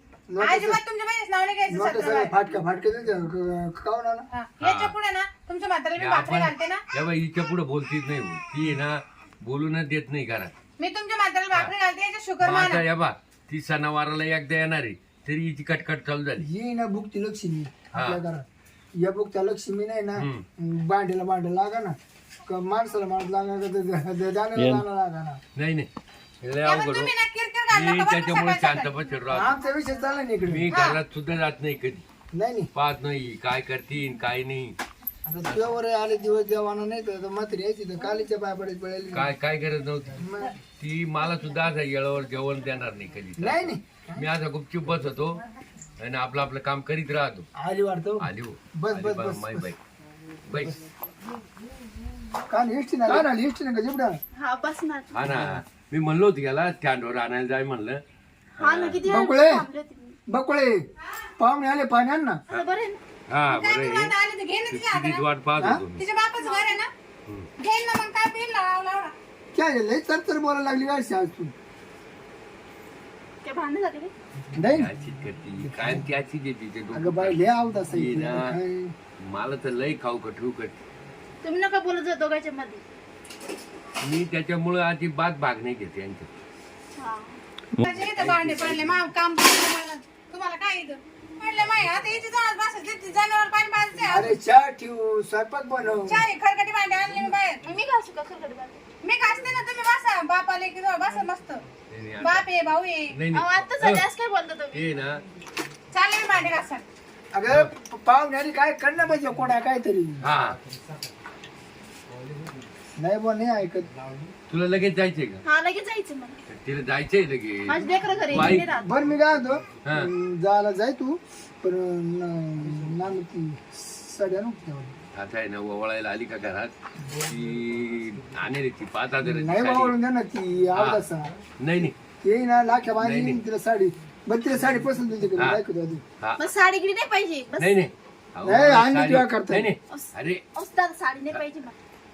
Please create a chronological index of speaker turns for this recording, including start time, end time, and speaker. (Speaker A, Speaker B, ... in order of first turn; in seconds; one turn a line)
Speaker A: 0.3-0.8
Speaker B: 0.4-2.3
Speaker A: 1.7-4.3
Speaker B: 4.3-6.8
Speaker C: 4.6-4.9
Speaker C: 6.0-10.5
Speaker B: 10.8-12.8
Speaker C: 12.4-16.5
Speaker A: 16.4-18.4
Speaker C: 17.9-18.2
Speaker A: 19.0-25.4
Speaker C: 20.2-20.4
Speaker C: 24.6-24.8
Speaker C: 25.6-25.9
Speaker C: 26.4-27.1
Speaker B: 26.6-28.9
Speaker C: 27.7-29.6
Speaker A: 29.3-30.7
Speaker C: 30.5-32.0
Speaker B: 30.7-31.0
Speaker A: 32.3-32.7
Speaker C: 32.7-34.8
Speaker A: 35.2-39.3
Speaker C: 39.1-40.2
Speaker A: 40.2-40.5
Speaker C: 40.8-45.4
Speaker A: 43.4-44.2
Speaker C: 46.0-47.5
Speaker A: 47.6-49.7
Speaker C: 48.2-49.8
Speaker C: 50.5-50.8
Speaker A: 52.5-54.2
Speaker D: 54.4-55.1
Speaker C: 55.1-58.0
Speaker A: 55.2-55.6
Speaker C: 58.6-59.0
Speaker D: 58.6-60.2
Speaker A: 59.0-59.7
Speaker A: 60.3-60.8
Speaker B: 61.0-61.3
Speaker A: 61.4-62.4
Speaker D: 62.5-63.0
Speaker C: 63.3-64.1
Speaker B: 63.5-65.2
Speaker C: 64.7-66.0
Speaker B: 66.0-66.9
Speaker D: 66.4-66.8
Speaker B: 67.6-69.1
Speaker A: 69.5-71.5
Speaker D: 73.4-74.1
Speaker A: 74.5-74.9
Speaker C: 74.7-78.6
Speaker A: 75.7-76.0
Speaker A: 76.9-78.9
Speaker C: 79.2-80.8
Speaker D: 81.4-82.8
Speaker C: 84.0-86.3
Speaker D: 87.0-87.4
Speaker C: 87.8-89.0
Speaker B: 87.8-94.3
Speaker A: 94.1-96.2
Speaker B: 96.1-97.6
Speaker D: 97.6-98.8
Speaker B: 99.0-101.6
Speaker C: 101.9-102.5
Speaker B: 102.2-103.2
Speaker C: 103.1-104.1
Speaker D: 103.3-104.9
Speaker C: 104.7-105.2
Speaker B: 105.9-106.8
Speaker A: 107.3-110.2
Speaker C: 110.2-110.6
Speaker A: 113.0-113.9
Speaker C: 114.5-115.4
Speaker D: 115.4-116.4
Speaker C: 116.5-118.7
Speaker D: 117.7-118.9
Speaker A: 118.7-125.0
Speaker C: 119.8-120.1
Speaker C: 125.1-129.9
Speaker A: 129.2-131.3
Speaker C: 130.7-131.1
Speaker C: 131.6-131.9
Speaker A: 132.2-136.0
Speaker C: 133.0-133.4
Speaker D: 136.4-137.8
Speaker C: 137.6-140.4
Speaker A: 138.4-139.7
Speaker D: 139.9-141.8